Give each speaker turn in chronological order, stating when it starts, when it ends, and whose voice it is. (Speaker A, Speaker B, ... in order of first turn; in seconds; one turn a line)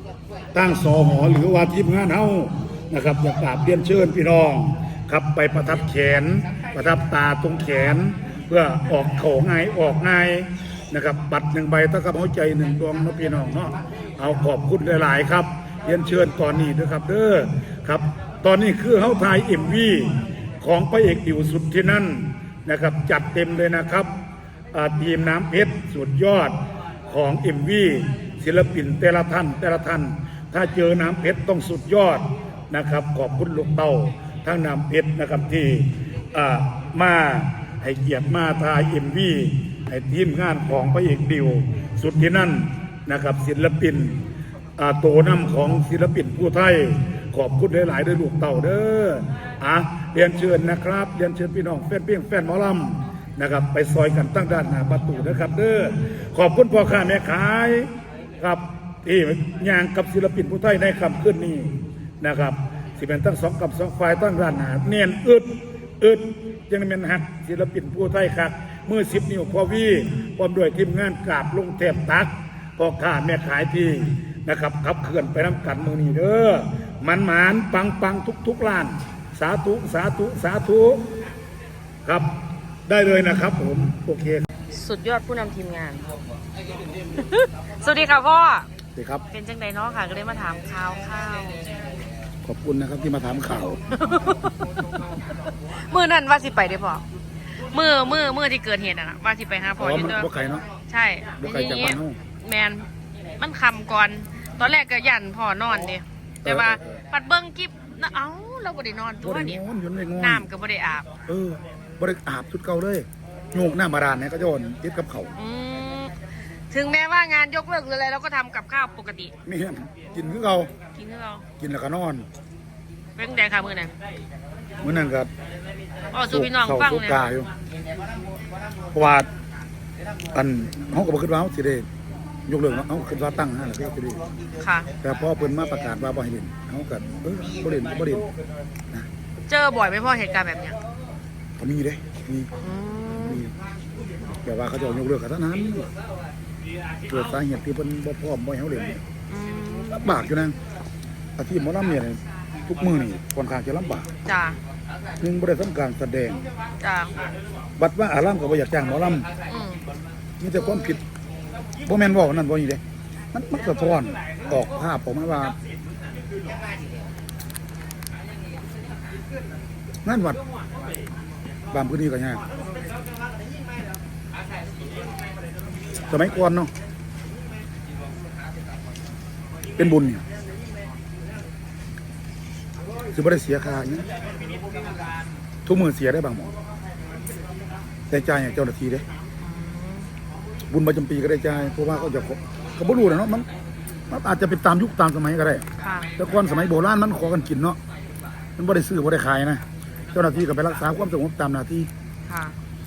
Speaker A: 0.5-24.1
Speaker A: 24.7-26.6
Speaker A: 27.1-44.2
Speaker A: 44.8-57.9
Speaker A: 58.4-81.1
Speaker A: 82.0-82.3
Speaker A: 82.9-84.4
Speaker B: 84.7-86.2
Speaker B: 87.1-88.7
Speaker A: 89.0-89.2
Speaker B: 89.3-91.6
Speaker A: 92.4-93.8
Speaker B: 93.9-97.0
Speaker B: 97.5-100.3
Speaker A: 99.8-100.6
Speaker B: 100.9-102.9
Speaker A: 101.4-102.2
Speaker B: 103.4-109.6
Speaker A: 106.4-106.8
Speaker A: 109.2-110.5
Speaker B: 110.2-111.1
Speaker A: 111.3-115.3
Speaker B: 115.3-116.1
Speaker B: 116.7-119.3
Speaker A: 119.4-120.7
Speaker B: 120.0-120.4
Speaker B: 121.0-121.5
Speaker A: 121.6-122.3
Speaker B: 123.2-123.9
Speaker A: 124.8-125.3
Speaker B: 126.1-127.3
Speaker A: 126.3-127.5
Speaker A: 128.9-129.3
Speaker A: 130.3-131.9
Speaker A: 132.5-134.3
Speaker B: 134.6-134.9
Speaker A: 135.0-138.3
Speaker B: 139.5-140.8
Speaker A: 141.6-142.5
Speaker B: 142.6-143.4
Speaker A: 143.2-143.6
Speaker A: 144.4-145.9
Speaker A: 147.1-149.0
Speaker B: 149.3-150.2
Speaker A: 149.9-150.6
Speaker A: 151.4-154.1
Speaker B: 154.3-154.6
Speaker A: 155.2-156.5
Speaker B: 156.8-157.2
Speaker A: 157.8-159.3
Speaker B: 159.5-159.8
Speaker A: 160.4-161.0
Speaker A: 161.8-162.8
Speaker A: 163.3-165.6
Speaker A: 170.1-170.4
Speaker A: 171.7-172.4
Speaker A: 176.1-176.7
Speaker A: 179.8-180.2
Speaker A: 183.1-184.1
Speaker A: 185.7-186.5
Speaker A: 188.1-189.1
Speaker B: 189.4-190.1
Speaker A: 190.7-193.5
Speaker A: 194.1-195.7
Speaker B: 195.8-196.1
Speaker A: 196.2-197.8
Speaker A: 198.6-201.9
Speaker B: 202.3-202.6